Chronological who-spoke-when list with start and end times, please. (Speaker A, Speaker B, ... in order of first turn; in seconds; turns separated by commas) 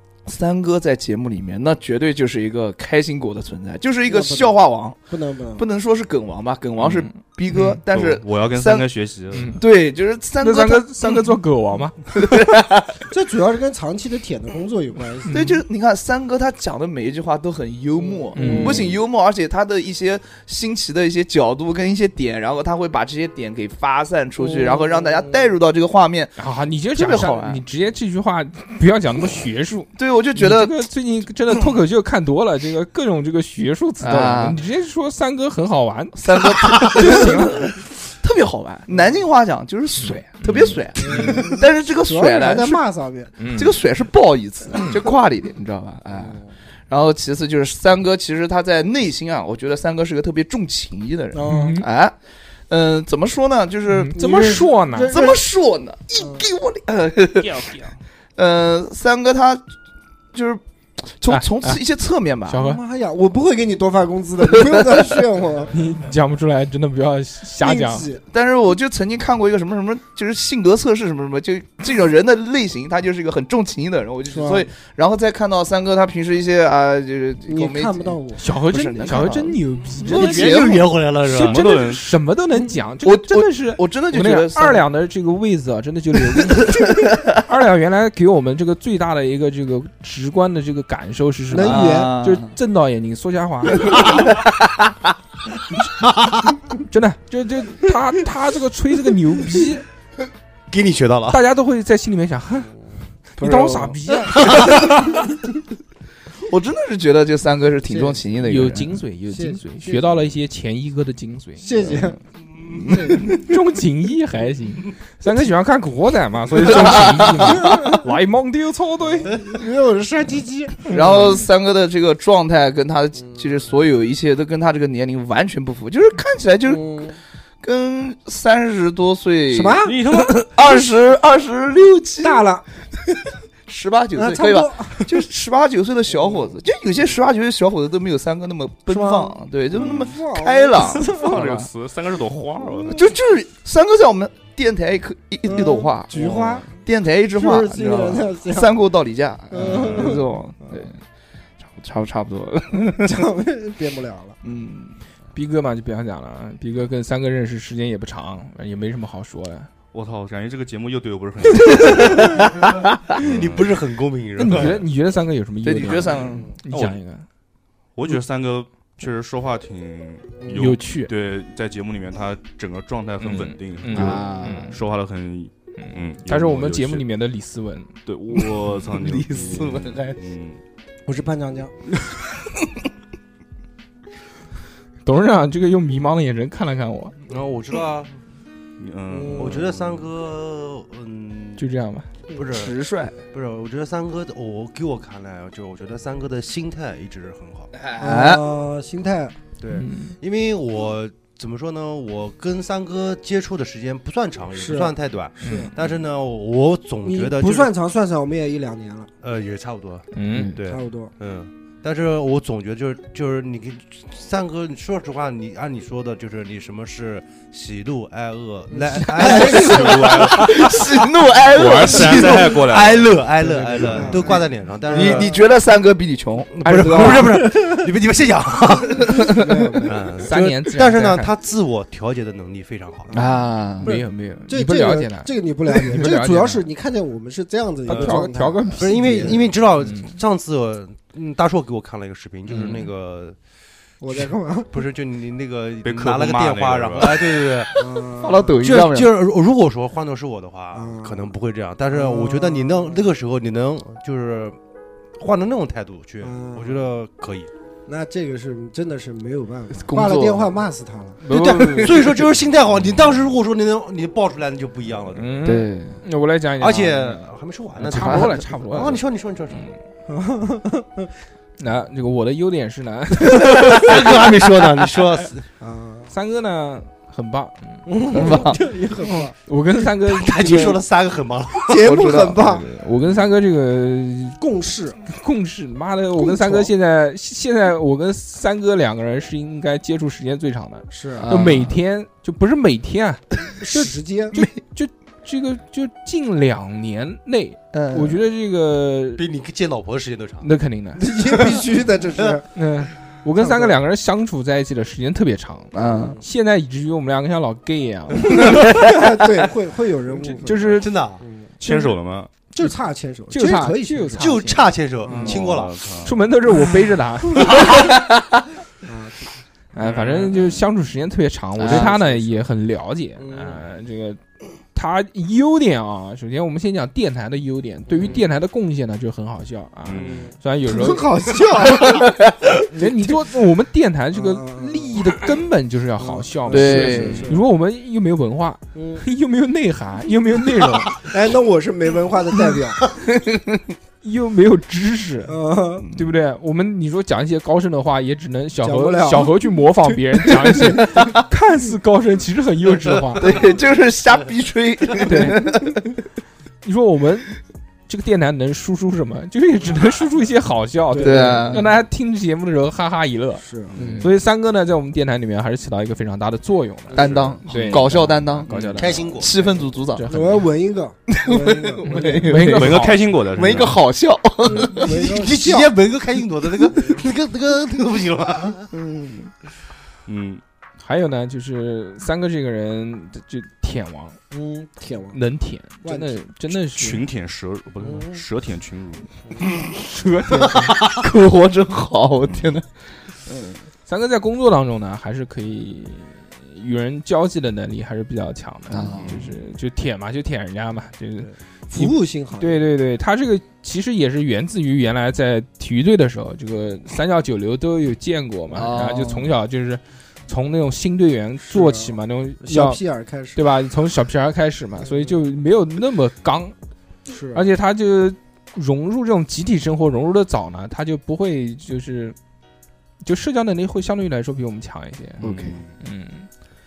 Speaker A: 0.2-5.0, Speaker B: 4.1-5.6, Speaker A: 5.5-8.8, Speaker C: 6.8-7.8, Speaker D: 7.9-9.6, Speaker C: 9.3-9.6, Speaker A: 9.6-11.2, Speaker C: 10.4-12.0, Speaker A: 12.1-12.9, Speaker B: 13.1-15.4, Speaker C: 15.3-15.6, Speaker A: 15.3-26.4, Speaker B: 17.9-19.0, Speaker C: 18.4-18.9, Speaker B: 24.4-25.5, Speaker C: 26.4-37.7, Speaker A: 26.9-27.6, Speaker A: 30.0-30.8, Speaker A: 34.0-34.6, Speaker A: 36.1-42.8, Speaker B: 37.0-37.5, Speaker B: 38.9-39.1, Speaker C: 40.0-41.4, Speaker B: 41.0-43.3, Speaker C: 43.4-43.7, Speaker A: 43.5-52.1, Speaker B: 46.1-46.5, Speaker B: 51.3-51.8, Speaker C: 51.5-51.9, Speaker A: 52.7-54.5, Speaker C: 53.9-55.1, Speaker B: 54.1-55.4, Speaker A: 55.1-57.8, Speaker B: 56.2-56.5, Speaker C: 57.5-57.9, Speaker A: 58.4-59.6, Speaker A: 60.3-62.6, Speaker C: 61.3-61.8, Speaker C: 62.5-62.8, Speaker B: 62.5-65.7, Speaker A: 64.6-64.9, Speaker C: 65.7-68.1, Speaker B: 67.6-68.2, Speaker A: 68.3-78.2, Speaker B: 74.3-74.7, Speaker B: 77.5-78.4, Speaker C: 78.4-80.7, Speaker A: 78.7-81.0, Speaker E: 80.1-81.7, Speaker C: 81.2-94.2, Speaker D: 81.4-82.2, Speaker A: 83.0-84.8, Speaker A: 86.5-87.3, Speaker B: 91.5-92.1, Speaker A: 91.6-92.5, Speaker A: 93.8-94.9, Speaker C: 96.9-99.8, Speaker E: 100.7-101.4, Speaker C: 101.3-102.7, Speaker C: 103.4-104.5, Speaker B: 103.4-105.3, Speaker A: 104.6-104.9, Speaker A: 106.4-109.0, Speaker B: 107.8-108.2, Speaker C: 108.4-111.9, Speaker B: 109.3-110.1, Speaker B: 111.6-113.4, Speaker A: 112.7-113.4, Speaker C: 113.3-119.3, Speaker A: 116.6-117.8, Speaker B: 117.4-118.1, Speaker B: 119.1-120.9, Speaker A: 120.9-127.1, Speaker C: 120.9-121.2, Speaker B: 123.2-123.6, Speaker B: 126.6-127.2, Speaker A: 127.6-129.8, Speaker B: 129.5-130.1, Speaker D: 129.8-130.5, Speaker A: 130.5-132.5, Speaker B: 132.2-132.7, Speaker A: 133.7-141.7, Speaker B: 134.1-135.1, Speaker B: 136.1-136.6, Speaker B: 138.9-141.5, Speaker D: 139.8-140.1, Speaker D: 140.9-143.0, Speaker B: 142.6-143.0, Speaker A: 142.9-146.1, Speaker B: 145.4-146.7, Speaker D: 146.1-146.7, Speaker A: 146.8-151.0, Speaker B: 147.3-148.8, Speaker B: 149.5-150.9, Speaker D: 149.6-150.2, Speaker A: 151.6-153.1, Speaker B: 153.0-154.4, Speaker A: 154.4-155.0, Speaker C: 155.3-159.7, Speaker D: 159.9-162.4, Speaker A: 161.7-162.4, Speaker D: 163.2-163.8, Speaker E: 163.2-164.8, Speaker C: 164.4-167.2, Speaker A: 165.6-166.5, Speaker B: 166.2-166.5, Speaker D: 166.7-167.0, Speaker D: 167.9-177.1, Speaker C: 170.5-171.1, Speaker C: 173.2-174.8, Speaker A: 173.9-174.7, Speaker C: 175.8-177.9, Speaker D: 178.1-180.6, Speaker A: 178.8-180.2, Speaker B: 181.1-181.7, Speaker C: 185.0-187.1, Speaker E: 187.3-188.1, Speaker D: 188.8-190.1, Speaker B: 189.1-189.7, Speaker E: 189.3-191.6, Speaker C: 191.6-192.1, Speaker E: 192.3-192.8, Speaker A: 192.4-193.2, Speaker E: 193.3-197.7, Speaker A: 197.8-198.4, Speaker B: 198.0-199.4, Speaker E: 199.6-207.7, Speaker C: 199.7-200.2, Speaker B: 204.5-205.7, Speaker C: 205.4-205.7, Speaker B: 207.0-209.1, Speaker E: 209.2-221.0, Speaker C: 210.1-210.5, Speaker A: 210.3-210.6, Speaker B: 210.7-211.1, Speaker B: 218.7-220.4, Speaker A: 219.3-222.6, Speaker D: 219.4-220.7, Speaker D: 221.5-223.2, Speaker E: 221.8-225.4, Speaker C: 223.4-224.1, Speaker B: 223.8-225.4, Speaker A: 224.9-227.3, Speaker E: 226.5-233.2, Speaker C: 226.6-227.2, Speaker B: 226.7-227.8, Speaker B: 229.2-230.0, Speaker C: 230.3-231.3, Speaker B: 233.1-239.4, Speaker A: 233.1-233.9, Speaker C: 233.8-236.7, Speaker C: 237.8-240.2, Speaker E: 237.9-238.2, Speaker E: 238.8-243.4, Speaker C: 242.5-242.8, Speaker B: 244.0-244.9, Speaker E: 244.7-247.8, Speaker D: 245.8-247.5, Speaker B: 247.7-248.7, Speaker A: 248.2-249.1, Speaker E: 248.6-254.6, Speaker B: 250.7-251.3, Speaker B: 251.9-253.1, Speaker E: 255.2-257.5, Speaker B: 256.2-256.9, Speaker B: 257.9-261.2, Speaker A: 259.7-260.6, Speaker C: 261.2-261.9, Speaker A: 261.3-262.2, Speaker E: 261.8-265.4, Speaker C: 265.1-267.2, Speaker A: 265.4-266.0, Speaker E: 266.6-269.7, Speaker C: 267.8-269.7, Speaker B: 270.1-271.1, Speaker C: 271.6-273.6, Speaker A: 273.2-275.0, Speaker E: 273.5-275.4, Speaker B: 275.6-276.1, Speaker C: 276.1-278.5, Speaker B: 277.9-279.3, Speaker A: 278.1-278.6, Speaker C: 279.0-280.8, Speaker E: 280.0-281.8, Speaker B: 281.6-282.6, Speaker A: 281.8-282.5, Speaker C: 282.4-284.4, Speaker B: 284.4-285.0, Speaker C: 285.1-299.2, Speaker B: 286.1-286.7, Speaker B: 290.9-291.3, Speaker A: 291.2-291.7, Speaker B: 293.6-294.4, Speaker A: 297.7-298.2, Speaker E: 299.2-300.5, Speaker C: 300.4-301.0, Speaker B: 301.0-302.5, Speaker E: 301.3-301.6, Speaker C: 302.5-308.6, Speaker B: 303.4-303.8, Speaker A: 305.7-306.2, Speaker B: 305.9-306.2, Speaker B: 308.2-311.6, Speaker C: 310.4-310.9, Speaker E: 310.5-311.2, Speaker D: 311.6-312.3, Speaker C: 311.6-311.9, Speaker B: 312.5-314.5, Speaker C: 313.3-315.3, Speaker E: 314.2-316.0, Speaker B: 315.0-315.4, Speaker D: 315.2-316.2, Speaker C: 316.0-317.7, Speaker A: 317.7-318.0, Speaker B: 318.8-319.3, Speaker C: 319.7-324.2, Speaker D: 319.8-320.6, Speaker A: 321.6-321.9, Speaker B: 321.6-322.4, Speaker B: 323.2-323.6, Speaker C: 324.7-331.1, Speaker B: 327.9-328.2, Speaker D: 329.8-330.3, Speaker B: 330.0-333.2, Speaker A: 331.8-332.5, Speaker C: 332.8-341.0, Speaker B: 334.1-335.1, Speaker B: 336.0-337.4, Speaker A: 336.5-337.3, Speaker D: 337.0-337.3, Speaker B: 338.7-339.0, Speaker B: 340.9-342.9, Speaker A: 343.0-343.6, Speaker C: 344.0-345.4, Speaker B: 345.2-345.9, Speaker C: 345.9-353.4, Speaker B: 348.6-351.1, Speaker A: 353.2-355.7, Speaker C: 355.0-355.5, Speaker C: 356.6-357.4, Speaker C: 357.9-363.4, Speaker B: 360.9-361.7, Speaker A: 361.0-361.6, Speaker B: 363.4-363.8, Speaker D: 363.7-364.1, Speaker A: 363.8-364.1, Speaker C: 364.0-369.2, Speaker A: 366.9-368.5, Speaker B: 367.0-367.3, Speaker D: 367.0-368.0, Speaker D: 368.5-369.0, Speaker E: 368.7-369.7, Speaker A: 369.2-370.0, Speaker C: 369.9-370.5, Speaker B: 370.1-372.3, Speaker A: 371.1-374.9, Speaker C: 372.2-373.0, Speaker D: 372.3-373.8, Speaker B: 374.4-375.7, Speaker E: 374.7-378.7, Speaker B: 376.7-377.1, Speaker A: 378.7-379.3, Speaker D: 380.1-380.4, Speaker C: 380.8-384.2, Speaker B: 384.3-385.2, Speaker C: 385.1-387.1, Speaker B: 385.8-386.2, Speaker D: 386.6-389.1, Speaker B: 387.8-388.2, Speaker C: 389.8-390.7, Speaker A: 390.5-392.6, Speaker D: 392.2-392.6, Speaker C: 393.9-412.8, Speaker A: 398.7-399.2, Speaker D: 398.9-399.3, Speaker B: 401.7-402.7, Speaker A: 408.5-409.3, Speaker B: 411.4-413.5, Speaker C: 413.4-416.5, Speaker B: 414.8-415.2, Speaker B: 417.1-417.5, Speaker C: 417.3-422.1, Speaker C: 423.0-425.2, Speaker B: 425.2-425.5, Speaker D: 425.2-425.7, Speaker C: 425.8-426.3